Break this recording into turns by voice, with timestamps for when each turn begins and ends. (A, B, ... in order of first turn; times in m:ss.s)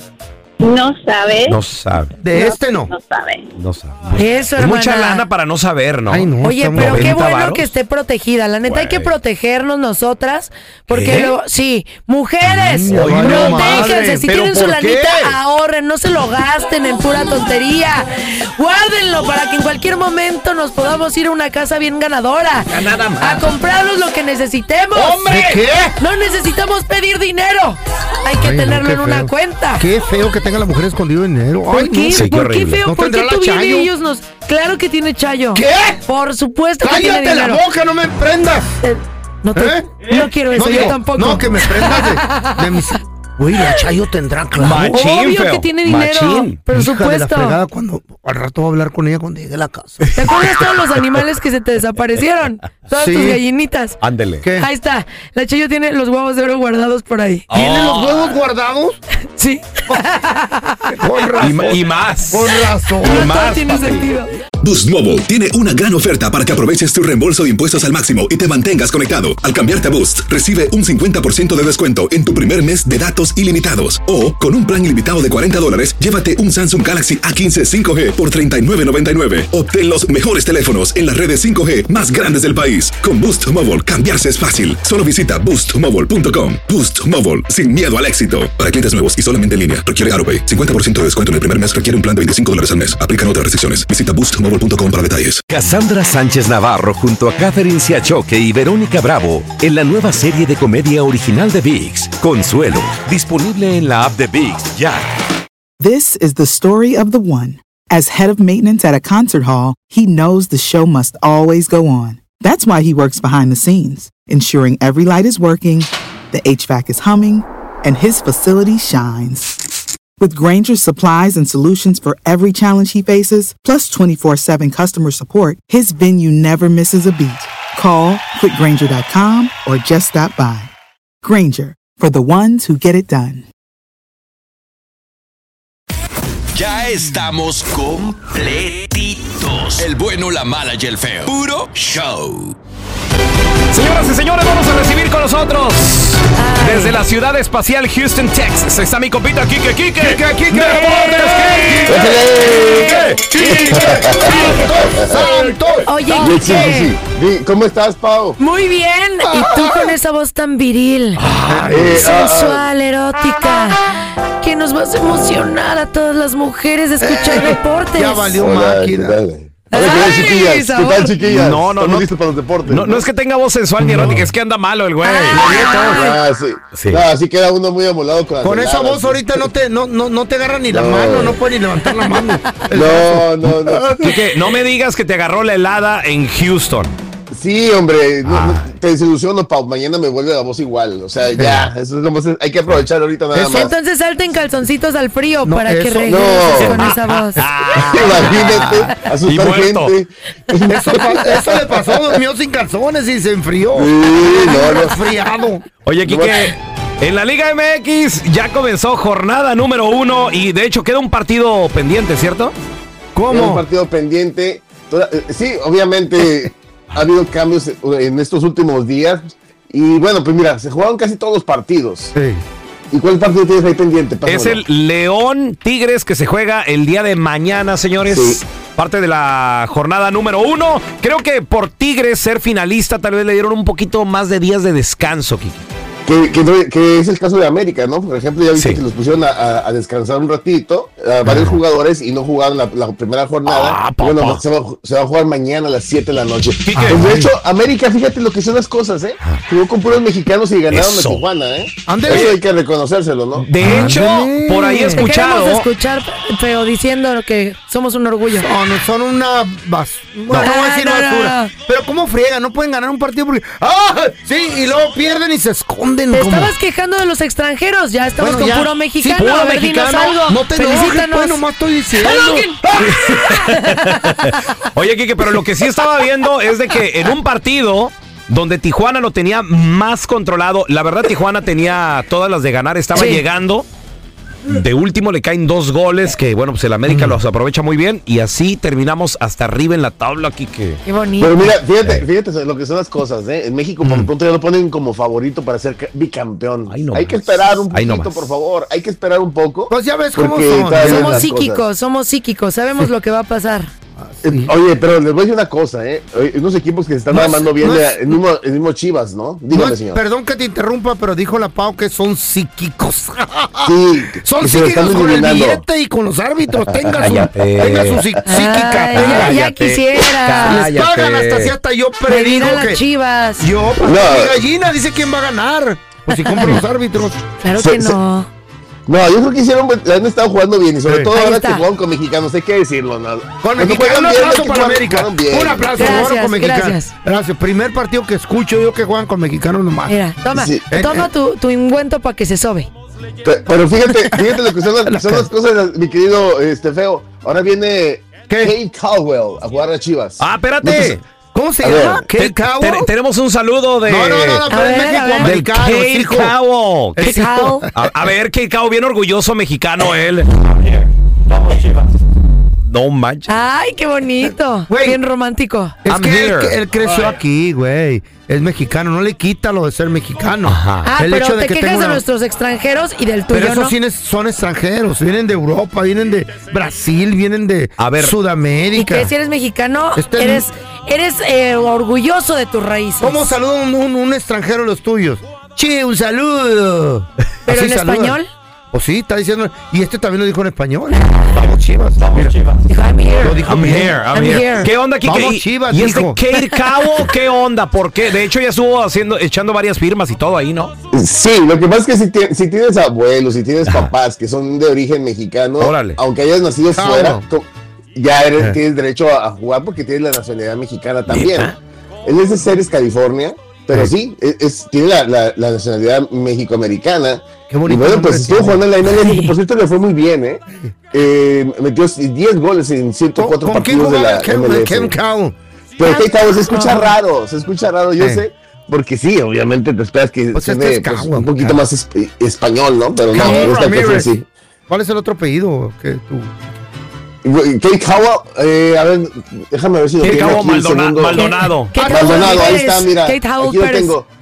0:00.6-0:01.6 A
0:01.5-0:02.1 B
0:02.2-0:02.9 C
0:02.3-0:03.5 A
0:03.6-0:07.7 B
0:04.1-0:05.2 D
0:06.1-0:07.2 C
0:06.4-0:25.4 D
0:08.6-0:09.2 B
0:10.9-0:11.4 B
0:12.5-0:14.3 C
0:12.9-0:15.4 B
0:22.7-0:23.5 B
0:25.0-0:25.7 B
0:25.2-0:26.0 C
0:26.0-0:29.8 D
0:28.4-0:32.3 C
0:31.7-0:37.6 D
0:32.1-0:32.8 B
0:32.8-0:33.9 C
0:35.5-0:36.0 C
0:36.8-0:38.7 C
0:38.8-0:42.8 D
0:39.6-0:39.9 C
0:40.5-0:45.1 C
0:40.6-0:40.9 B
0:44.6-0:46.6 B
0:44.9-0:47.6 D
0:46.7-0:50.3 C
0:50.2-0:54.0 D
0:52.9-0:53.4 C
0:54.0-0:54.4 B
0:54.4-0:54.7 C
0:54.6-0:57.4 D
0:57.5-0:58.4 B
0:57.5-0:59.0 C
0:59.4-1:00.9 D
1:01.0-1:03.3 C
1:01.4-1:02.5 B
1:03.0-1:04.3 D
1:03.0-1:04.2 B
1:04.6-1:35.4 E
1:35.5-1:45.1 F
1:45.8-1:59.7 G
2:00.2-2:10.7 G
2:11.2-2:13.5 G
2:16.5-2:22.6 H
2:23.7-2:32.1 B
2:26.4-2:27.0 D
2:30.0-2:32.2 C
2:30.6-2:32.0 D
2:31.9-2:35.1 I
2:32.6-2:36.9 D
2:32.7-2:33.9 B
2:32.9-2:36.6 C
2:36.2-2:38.4 I
2:38.4-2:41.2 D
2:39.3-2:39.8 C
2:41.2-2:42.0 B
2:41.5-2:42.1 C
2:41.7-2:42.7 I
2:42.0-2:43.8 D
2:44.4-2:48.4 D
2:47.0-2:49.2 C
2:48.4-2:53.1 I
2:49.7-2:51.1 D
2:51.2-2:52.1 B
2:52.7-2:56.0 B
2:53.8-2:54.3 C
2:55.0-2:56.2 D
2:55.3-2:59.4 I
2:56.7-2:57.0 B
2:58.4-3:04.1 C
3:00.7-3:01.4 I
3:02.7-3:04.1 I
3:04.0-3:07.0 B
3:07.3-3:13.7 I
3:08.2-3:08.6 B
3:11.4-3:11.7 C
3:13.3-3:13.7 C
3:13.5-3:17.4 D
3:15.4-3:17.2 C
3:16.1-3:16.9 I
3:17.2-3:20.0 B
3:17.7-3:22.1 I
3:20.7-3:25.6 C
3:23.8-3:25.0 I
3:25.9-3:32.5 B
3:26.1-3:26.5 I
3:33.2-3:33.6 C
3:33.3-3:42.1 I
3:42.1-3:42.4 C
3:42.9-3:44.6 I
3:44.3-3:55.7 B
3:48.1-3:48.4 I
3:56.1-4:13.5 I
3:58.5-3:58.8 B
4:03.4-4:04.4 B
4:06.6-4:07.2 B
4:06.7-4:07.3 C
4:10.7-4:11.2 B
4:11.9-4:12.3 C
4:12.1-4:12.3 B
4:13.4-4:15.7 B
4:13.6-4:15.1 C
4:15.0-4:18.5 D
4:18.3-4:26.5 C
4:20.4-4:21.5 D
4:26.1-4:31.4 D
4:28.2-4:32.9 C
4:29.2-4:30.1 B
4:32.0-4:34.0 D
4:32.8-4:43.7 B
4:42.9-4:43.2 D
4:44.5-4:50.8 B
4:46.9-4:47.2 C
4:50.8-4:51.5 D
4:51.2-5:01.6 I
4:56.7-4:58.3 B
4:59.7-5:01.3 C
5:00.8-5:03.7 D
5:04.0-5:04.5 C
5:04.3-5:10.0 I
5:07.1-5:08.0 C
5:09.5-5:13.7 C
5:13.7-5:15.6 I
5:14.2-5:19.4 C
5:17.0-5:18.3 B
5:18.3-5:20.7 D
5:18.9-5:21.5 B
5:20.4-5:22.8 C
5:22.1-5:23.4 D
5:23.4-5:27.2 C
5:23.8-5:24.4 I
5:26.1-5:26.6 D
5:27.4-5:28.3 D
5:27.6-5:28.0 I
5:28.9-5:36.0 I
5:30.9-5:31.1 C
5:31.1-5:31.6 D
5:33.4-5:40.0 C
5:35.8-5:36.9 D
5:39.9-5:42.7 D
5:40.3-5:40.7 I
5:40.7-5:41.1 C
5:43.2-5:50.9 I
5:43.9-5:44.3 C
5:44.9-5:45.3 C
5:48.3-5:48.6 C
5:50.2-5:51.0 B
5:50.6-5:52.9 C
5:51.6-5:52.0 I
5:52.2-5:54.4 B
5:53.9-5:56.4 C
5:54.5-5:55.4 D
5:55.2-6:01.8 B
5:57.0-5:57.7 C
5:57.0-5:57.7 D
6:02.7-6:03.3 B
6:03.3-6:05.8 D
6:04.7-6:05.0 C
6:05.8-6:12.0 C
6:05.9-6:06.6 B
6:10.5-6:10.9 B
6:10.8-6:13.7 D
6:13.3-6:19.1 C
6:17.8-6:18.2 B
6:18.8-6:23.4 D
6:20.0-6:20.5 C
6:23.0-6:28.2 C
6:27.5-6:28.3 D
6:28.7-6:32.4 C
6:32.2-6:32.5 B
6:32.7-6:34.7 D
6:33.2-6:34.0 C
6:33.4-6:40.7 B
6:35.0-6:36.2 C
6:40.9-7:05.0 I
6:43.6-6:43.9 B
6:45.6-6:46.0 B
6:46.8-6:47.2 C
6:51.1-6:51.6 B
6:57.5-6:58.6 C
6:58.9-6:59.4 D
7:03.2-7:05.4 C
7:05.8-7:14.3 I
7:05.8-7:06.9 D
7:08.0-7:08.2 C
7:10.3-7:11.6 C
7:13.1-7:14.1 C
7:13.2-7:13.7 D
7:14.7-7:16.3 C
7:17.2-7:24.1 I
7:20.0-7:21.9 B
7:21.2-7:24.0 D